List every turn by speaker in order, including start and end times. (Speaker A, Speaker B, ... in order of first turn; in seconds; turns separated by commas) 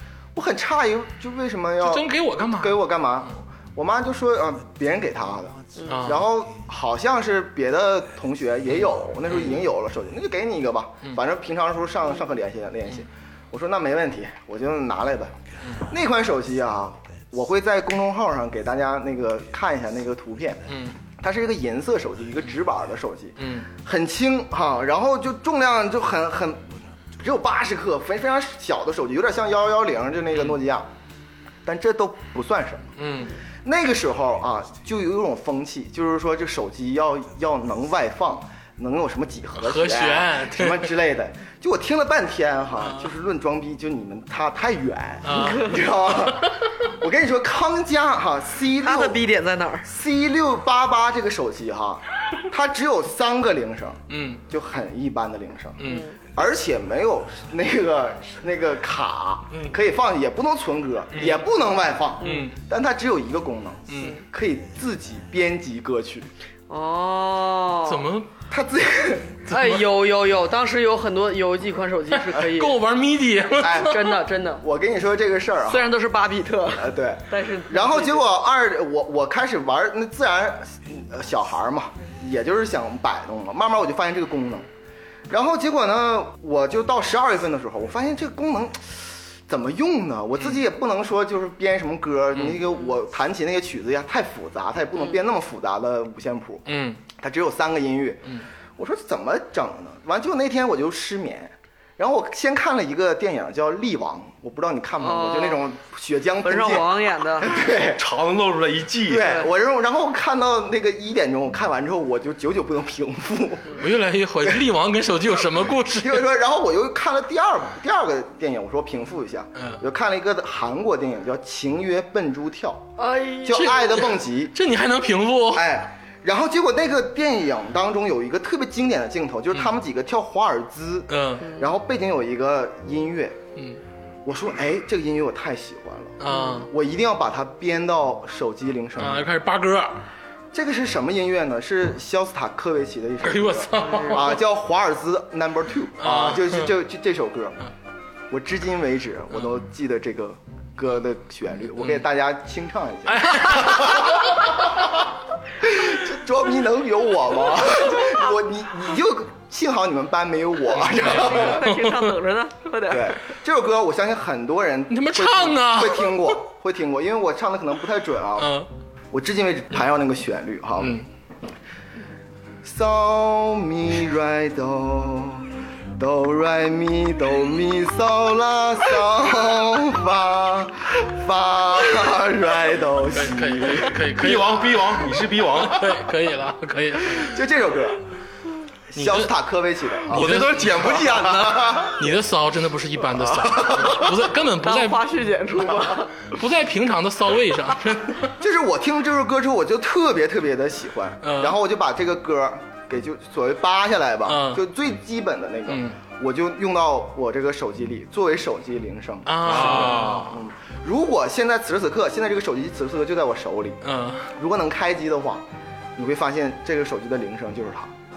Speaker A: 0.3-15.3, Speaker B: 1.8-2.8, Speaker C: 5.8-6.0, Speaker B: 5.9-6.2, Speaker A: 15.9-20.6, Speaker B: 20.7-21.0, Speaker A: 21.2-26.6, Speaker B: 23.4-23.7, Speaker A: 27.2-30.9, Speaker A: 31.6-32.9, Speaker B: 33.0-33.3, Speaker A: 33.6-49.2, Speaker B: 39.6-40.9, Speaker B: 45.2-45.8, Speaker C: 48.8-49.9, Speaker A: 49.9-55.8, Speaker B: 54.1-54.4, Speaker B: 55.8-56.1, Speaker C: 55.9-56.2, Speaker A: 56.3-66.3, Speaker B: 59.5-59.8, Speaker B: 61.1-61.5, Speaker C: 62.2-62.5, Speaker B: 62.2-62.6, Speaker B: 63.9-64.2, Speaker C: 64.0-64.2, Speaker C: 66.7-68.1, Speaker B: 67.8-68.3, Speaker A: 68.5-69.4, Speaker B: 69.5-69.8, Speaker C: 69.5-72.8, Speaker B: 72.1-74.1, Speaker A: 73.6-75.9, Speaker C: 73.8-74.6, Speaker C: 75.7-78.3, Speaker A: 76.8-84.7, Speaker A: 85.3-108.0, Speaker B: 92.3-92.6, Speaker B: 96.7-97.0, Speaker C: 105.0-105.6, Speaker C: 106.4-107.6, Speaker D: 107.8-109.4, Speaker A: 109.0-113.8, Speaker C: 109.2-109.5, Speaker B: 113.8-116.2, Speaker A: 115.9-122.9, Speaker C: 123.0-123.8, Speaker A: 123.4-124.5, Speaker B: 123.5-125.7, Speaker A: 125.5-133.4, Speaker B: 131.1-131.5, Speaker C: 131.4-131.7, Speaker A: 134.2-139.3, Speaker B: 136.2-136.7, Speaker C: 136.3-136.6, Speaker B: 139.0-140.0, Speaker A: 140.5-147.6, Speaker B: 143.2-144.4, Speaker B: 146.0-146.7, Speaker A: 148.3-154.9, Speaker B: 153.1-154.6, Speaker A: 155.6-161.7, Speaker B: 160.8-162.1, Speaker C: 161.0-163.2, Speaker A: 162.9-168.5, Speaker B: 164.9-166.4, Speaker B: 168.4-168.7, Speaker A: 169.1-171.0, Speaker B: 170.8-171.1, Speaker A: 172.6-184.0, Speaker B: 183.1-185.1, Speaker D: 184.2-186.0, Speaker B: 185.6-187.4, Speaker A: 187.1-188.0, Speaker A: 188.9-192.1, Speaker B: 188.9-189.3, Speaker D: 190.1-191.9, Speaker B: 190.1-191.0, Speaker B: 191.9-195.0, Speaker A: 193.2-194.1, Speaker C: 194.6-196.3, Speaker B: 196.3-198.3, Speaker A: 198.4-213.8, Speaker B: 201.2-201.6, Speaker B: 204.3-204.6, Speaker B: 205.7-206.0, Speaker B: 209.2-210.4, Speaker D: 209.5-210.3, Speaker B: 213.8-214.3, Speaker A: 214.4-215.4, Speaker A: 216.0-217.9